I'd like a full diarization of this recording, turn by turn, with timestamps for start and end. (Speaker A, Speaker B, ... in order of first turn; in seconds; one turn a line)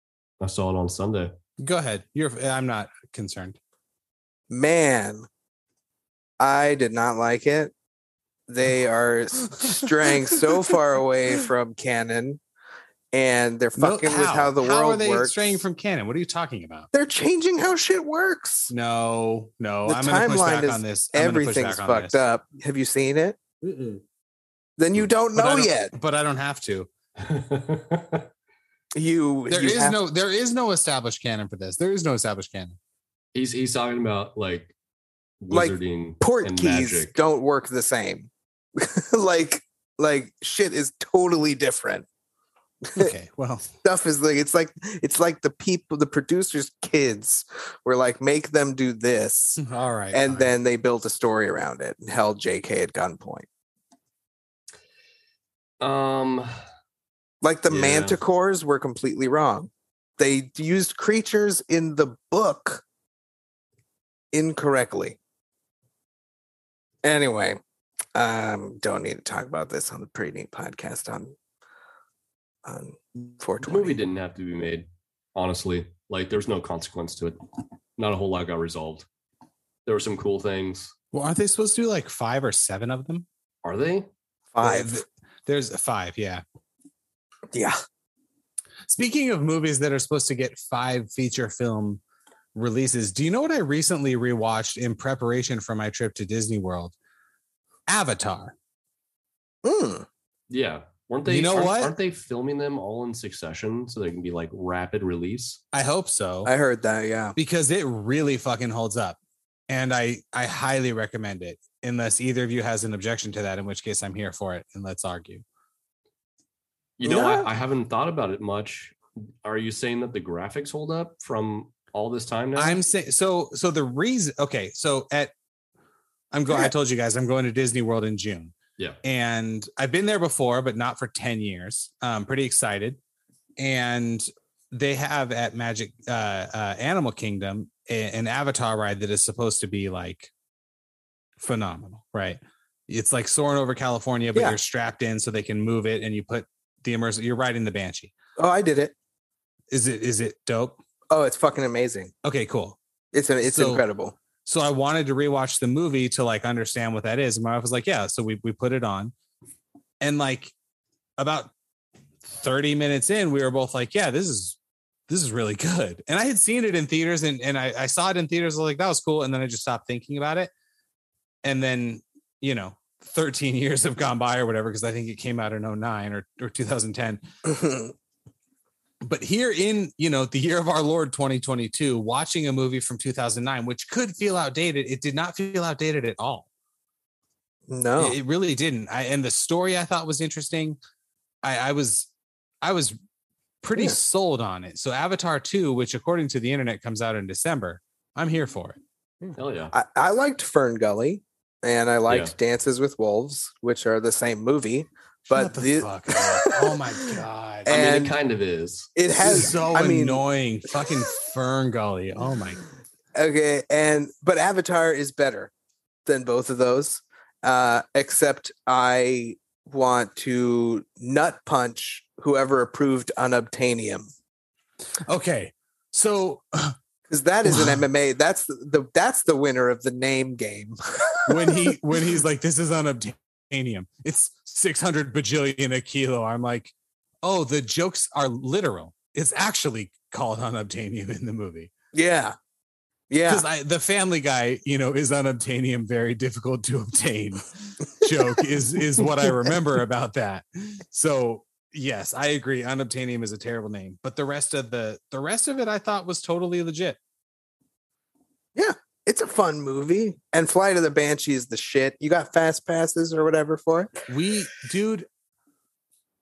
Speaker A: 0.4-1.3
Speaker B: 1.6-3.6
Speaker C: 4.5-5.3
Speaker C: 6.4-7.7
Speaker C: 8.5-12.4
Speaker C: 13.1-15.6
Speaker B: 13.8-16.9
Speaker C: 16.9-18.7
Speaker B: 18.7-22.2
Speaker C: 19.8-23.4
Speaker A: 23.6-24.0
Speaker C: 24.8-25.9
Speaker B: 25.3-26.9
Speaker A: 27.2-28.3
Speaker C: 28.9-30.0
Speaker B: 29.5-32.8
Speaker A: 33.3-34.7
Speaker A: 35.4-37.1
Speaker C: 35.5-42.0
Speaker C: 42.8-43.1
Speaker B: 43.0-43.7
Speaker C: 43.8-53.5
Speaker B: 49.6-50.5
Speaker A: 55.8-56.5
Speaker C: 57.4-62.8
Speaker A: 57.7-58.2
Speaker C: 64.3-65.2
Speaker C: 67.0-67.6
Speaker C: 68.1-71.3
Speaker C: 72.6-74.0
Speaker A: 73.6-77.4
Speaker A: 78.0-79.1
Speaker A: 79.8-80.9
Speaker B: 81.1-83.2
Speaker A: 83.6-84.1
Speaker C: 84.5-85.0
Speaker B: 84.6-86.4
Speaker B: 88.9-92.0
Speaker B: 92.5-96.9
Speaker B: 97.9-98.5
Speaker C: 99.6-100.0
Speaker A: 100.5-105.6
Speaker B: 101.2-101.9
Speaker B: 105.7-106.5
Speaker C: 106.4-107.3
Speaker B: 107.3-109.2
Speaker B: 109.7-115.4
Speaker A: 117.0-122.8
Speaker C: 117.0-117.5
Speaker B: 122.5-125.3
Speaker B: 126.3-133.0
Speaker B: 133.6-140.3
Speaker B: 141.4-148.1
Speaker C: 148.4-148.9
Speaker B: 149.7-150.8
Speaker C: 151.1-152.1
Speaker B: 152.2-152.8
Speaker C: 153.1-154.2
Speaker B: 153.5-153.8
Speaker B: 154.4-159.1
Speaker B: 160.0-160.5
Speaker B: 161.2-161.5
Speaker B: 162.2-170.5
Speaker B: 171.4-177.2
Speaker C: 177.4-177.9
Speaker B: 179.0-186.5
Speaker C: 187.7-188.2
Speaker B: 188.0-190.8
Speaker B: 191.4-192.1
Speaker B: 192.6-192.9
Speaker B: 193.6-198.8
Speaker C: 199.2-206.8
Speaker A: 199.3-199.7
Speaker A: 202.1-202.3
Speaker B: 205.3-207.8
Speaker C: 207.7-208.2
Speaker A: 207.7-208.9
Speaker C: 208.9-210.2
Speaker B: 209.2-212.6
Speaker C: 213.1-215.5
Speaker C: 216.1-224.1
Speaker B: 225.1-226.8
Speaker C: 227.1-231.7
Speaker B: 227.4-227.8
Speaker B: 231.3-241.7
Speaker C: 241.9-242.3
Speaker C: 243.1-243.4
Speaker B: 243.2-257.0
Speaker C: 248.1-248.4
Speaker C: 249.0-249.5
Speaker C: 258.6-263.9
Speaker B: 264.1-265.1